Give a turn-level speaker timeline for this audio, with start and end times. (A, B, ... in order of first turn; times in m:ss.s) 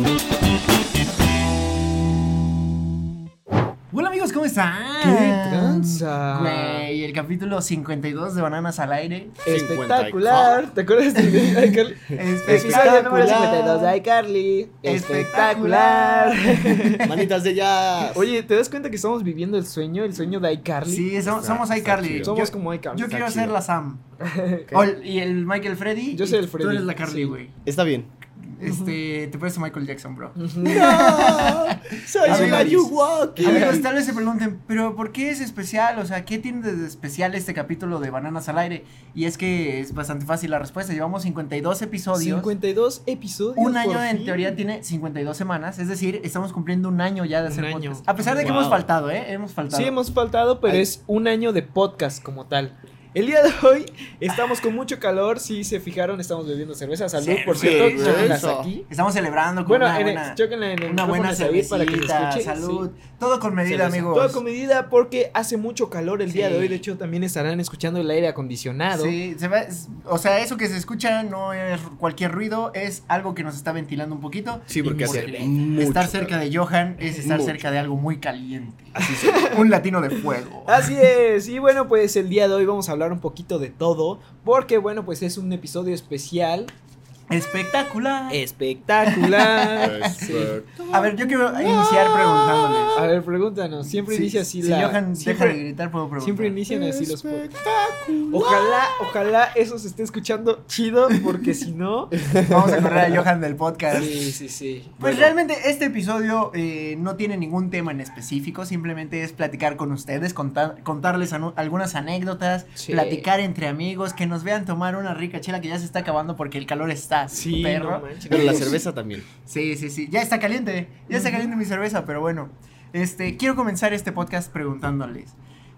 0:03.9-0:09.4 A
0:05.0-0:06.9 B
0:09.4-0:10.7 C
0:09.4-0:17.1 B
0:12.1-0:13.9 C
0:12.1-0:13.4 A
0:14.8-0:17.1 A
0:17.0-0:18.3 C
0:18.1-0:21.1 B
0:20.9-0:24.0 A
0:21.2-0:22.4 C
0:22.2-0:23.2 B
0:23.1-0:23.6 C
0:24.2-0:24.7 B
0:24.7-0:27.5 A
0:26.1-0:27.4 B
0:27.6-0:28.1 C
0:28.4-0:32.8 A
0:28.6-0:28.9 B
0:30.4-0:31.0 B
0:30.6-0:33.9 C
0:32.2-0:33.9 B
0:33.4-0:42.5 A
0:42.2-0:44.6 B
0:43.6-0:50.0 A
0:47.4-0:48.6 B
0:48.2-0:48.9 C
0:49.7-0:58.9 B
0:57.2-1:04.4 A
0:57.5-0:58.7 C
0:59.6-1:02.8 B
1:03.7-1:09.2 B
1:06.3-1:06.8 A
1:08.9-1:20.9 A
1:14.7-1:16.4 C
1:17.1-1:17.6 C
1:19.0-1:19.5 C
1:19.0-1:19.6 B
1:20.7-1:26.7 B
1:27.3-1:28.4 A
1:28.3-1:32.4 B
1:29.1-1:30.3 A
1:29.8-1:33.1 C
1:30.9-1:33.0 A
1:32.9-1:35.6 B
1:34.1-1:34.4 C
1:34.6-1:36.6 A
1:36.2-1:37.5 B
1:36.7-1:38.7 C
1:38.3-1:42.2 B
1:42.2-1:43.2 C
1:42.4-1:44.1 A
1:43.9-1:45.0 B
1:45.0-1:58.8 A
1:45.0-1:45.3 C
1:52.8-1:53.3 B
1:57.3-1:58.8 B
1:58.3-1:59.3 C
1:59.4-2:05.4 A
2:01.1-2:01.5 B